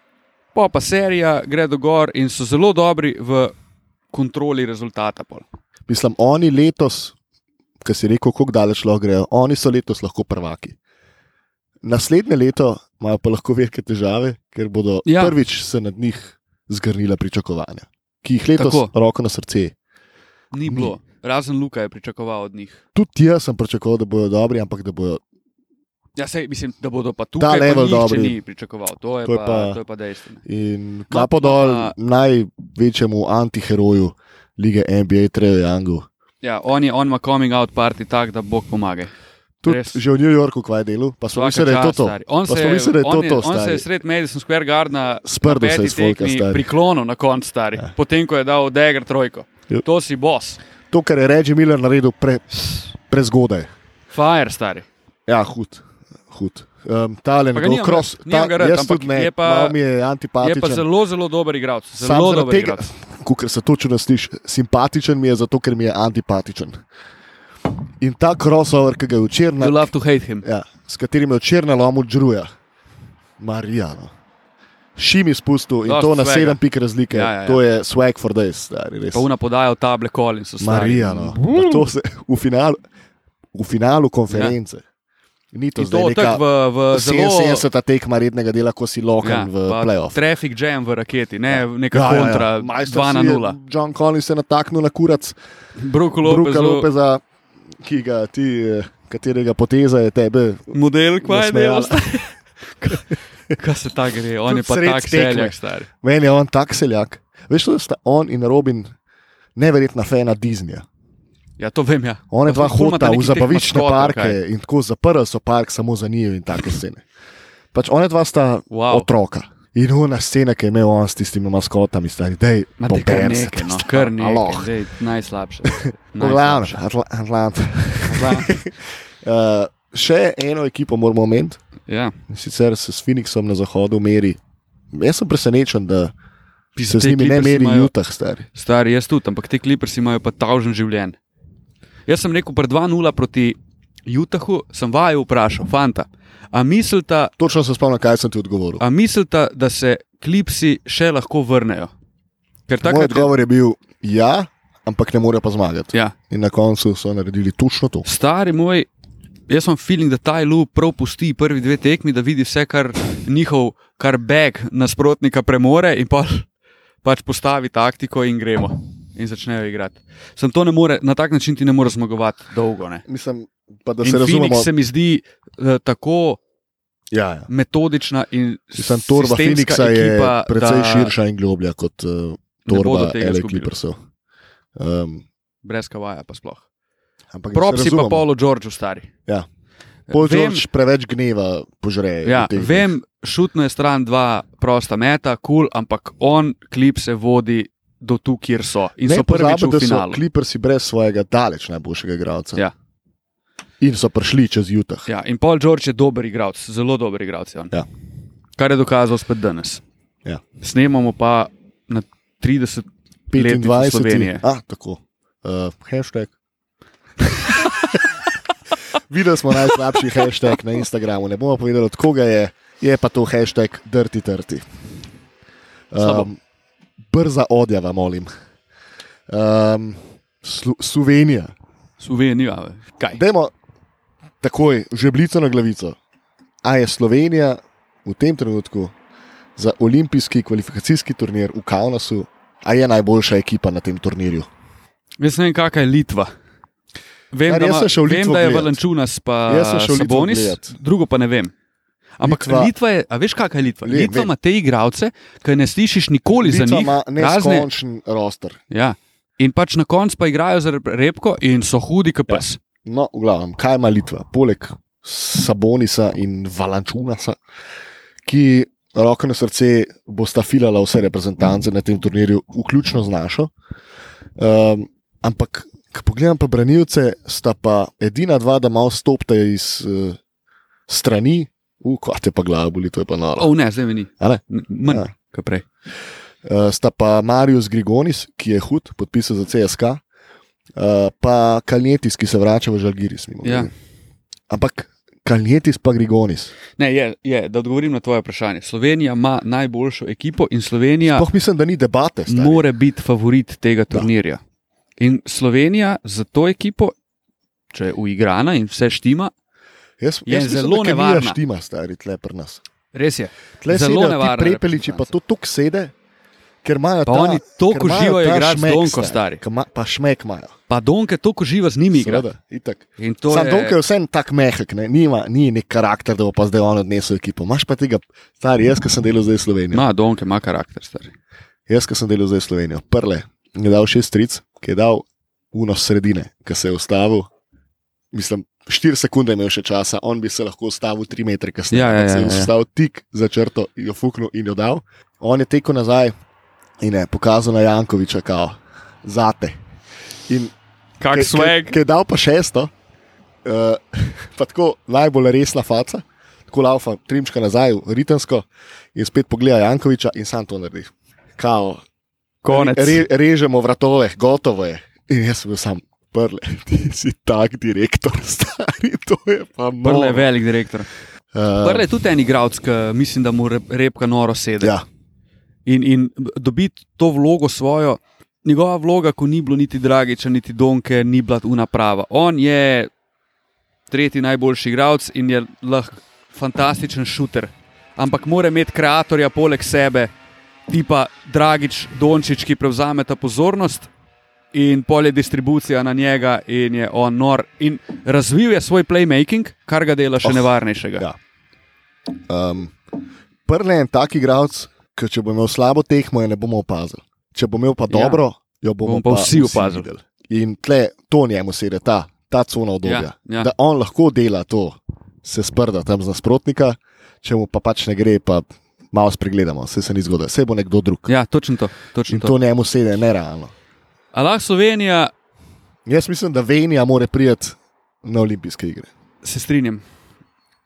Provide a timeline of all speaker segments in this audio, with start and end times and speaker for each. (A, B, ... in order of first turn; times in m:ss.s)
0:00.5-0:03.5 A
0:04.1-0:05.4 A
0:05.9-0:07.2 B
0:07.8-0:10.8 B
0:11.8-0:19.7 B
0:15.0-0:15.4 A
0:18.6-0:18.9 A
0:20.5-0:22.8 A
0:20.7-0:20.9 B
0:22.9-0:25.2 B
0:26.2-0:30.4 A
0:27.4-0:28.4 B
0:29.2-0:29.8 B
0:30.4-0:36.1 B
0:31.1-0:31.9 A
0:36.4-0:39.1 A
0:39.6-0:43.8 B
0:39.6-0:40.0 A
0:41.3-0:50.6 A
0:45.2-0:46.7 B
0:50.9-0:53.7 B
0:54.1-0:54.9 A
0:55.3-1:00.8 B
0:57.5-0:59.8 A
1:00.4-1:02.9 A
1:02.0-1:06.8 B
1:08.0-1:09.9 B
1:09.6-1:10.4 A
1:10.4-1:12.5 B
1:13.4-1:14.1 B
1:15.0-1:19.3 B
1:15.9-1:16.6 A
1:17.1-1:17.6 A
1:19.1-1:21.7 A
1:20.6-1:22.8 B
1:23.5-1:24.8 B
1:24.3-1:24.6 A
1:25.5-1:30.2 B
1:25.8-1:27.6 A
1:29.2-1:33.6 A
1:31.5-1:35.4 B
1:35.8-1:36.9 A
1:36.2-1:37.2 B
1:37.8-1:42.0 B
1:40.7-1:45.9 A
1:44.4-1:48.9 B
1:49.6-1:50.8 B
1:51.6-1:54.4 A
1:52.3-1:57.0 B
1:57.7-2:04.7 B
1:58.7-1:59.1 A
2:02.8-2:06.8 A
2:05.7-2:11.6 B
2:08.1-2:08.6 A
2:11.9-2:12.1 A
2:12.3-2:14.4 B
2:14.9-2:16.1 B
2:16.8-2:17.9 A
2:16.9-2:18.5 B
2:18.5-2:21.2 A
2:22.1-2:27.3 A
2:27.4-2:28.8 B
2:28.8-2:31.9 A
2:32.7-2:33.3 A
2:32.8-2:38.0 B
2:38.0-2:38.9 A
2:39.5-2:46.5 A
2:47.0-2:53.0 A
2:53.1-2:54.7 B
2:54.0-2:56.4 A
2:57.1-2:57.5 B
2:57.5-3:01.1 A
2:58.8-3:04.0 B
3:02.6-3:03.7 A
3:04.8-3:05.2 B
3:05.6-3:06.6 A
3:07.3-3:08.2 B
3:07.5-3:09.1 A
3:10.1-3:10.6 A
3:10.1-3:12.9 B
3:12.2-3:20.2 A
3:19.0-3:22.6 B
3:23.8-3:25.1 B
3:25.1-3:27.7 A
3:28.6-3:29.8 A
3:30.6-3:34.4 A
3:33.3-3:36.3 B
3:39.1-3:44.6 B
3:45.9-3:46.4 B
3:46.0-3:46.3 A
3:47.1-3:48.3 B
3:49.3-3:51.5 B
3:52.0-3:53.2 A
3:53.1-3:53.5 B
3:54.4-3:56.0 B
3:56.6-3:58.9 B
3:59.6-4:04.5 B
4:05.2-4:06.3 A
4:07.3-4:11.5 A
4:07.4-4:08.8 B
4:09.5-4:10.7 B
4:12.2-4:17.7 A
4:12.2-4:12.7 B
4:13.8-4:14.3 B
4:16.4-4:18.6 B
4:18.7-4:22.6 A
4:22.3-4:27.4 B
4:28.2-4:33.5 B
4:34.4-4:40.2 B
4:40.9-4:43.5 B
4:43.4-4:45.6 A
4:44.2-4:45.1 B
4:46.4-4:50.0 B
4:50.8-4:53.7 B
4:53.4-4:53.7 A
4:54.5-4:56.5 B
4:56.8-5:01.2 A
5:01.0-5:02.6 B
5:02.3-5:04.4 A
5:05.0-5:06.9 A
5:07.7-5:09.3 A
5:10.0-5:12.6 B
5:10.2-5:11.4 A
5:12.9-5:15.1 A
5:13.6-5:15.9 B
5:16.6-5:20.5 B
5:17.0-5:19.4 A
5:20.7-5:22.3 A
5:21.9-5:29.8 B
5:23.0-5:23.8 A
5:29.7-5:31.1 A
5:31.7-5:37.3 B
5:38.1-5:46.1 B
5:41.7-5:42.5 A
5:46.8-5:49.6 B
5:50.3-5:50.5 B
5:51.0-5:51.8 A
5:51.1-5:52.7 B
5:53.4-6:01.8 B
6:02.4-6:03.0 A
6:02.4-6:10.3 B
6:09.8-6:10.9 A
6:11.3-6:11.8 B
6:11.6-6:14.7 A
6:15.6-6:22.9 A
6:23.9-6:30.1 A
6:30.7-6:33.9 A
6:34.5-6:41.1 A
6:42.3-6:42.7 B
6:43.4-7:01.1 B
6:47.9-6:48.2 A
6:48.8-6:49.9 A
6:52.8-6:53.5 A
7:01.1-7:02.3 A
7:02.1-7:03.5 B
7:04.1-7:05.1 A
7:05.8-7:08.9 B
7:09.2-7:09.8 A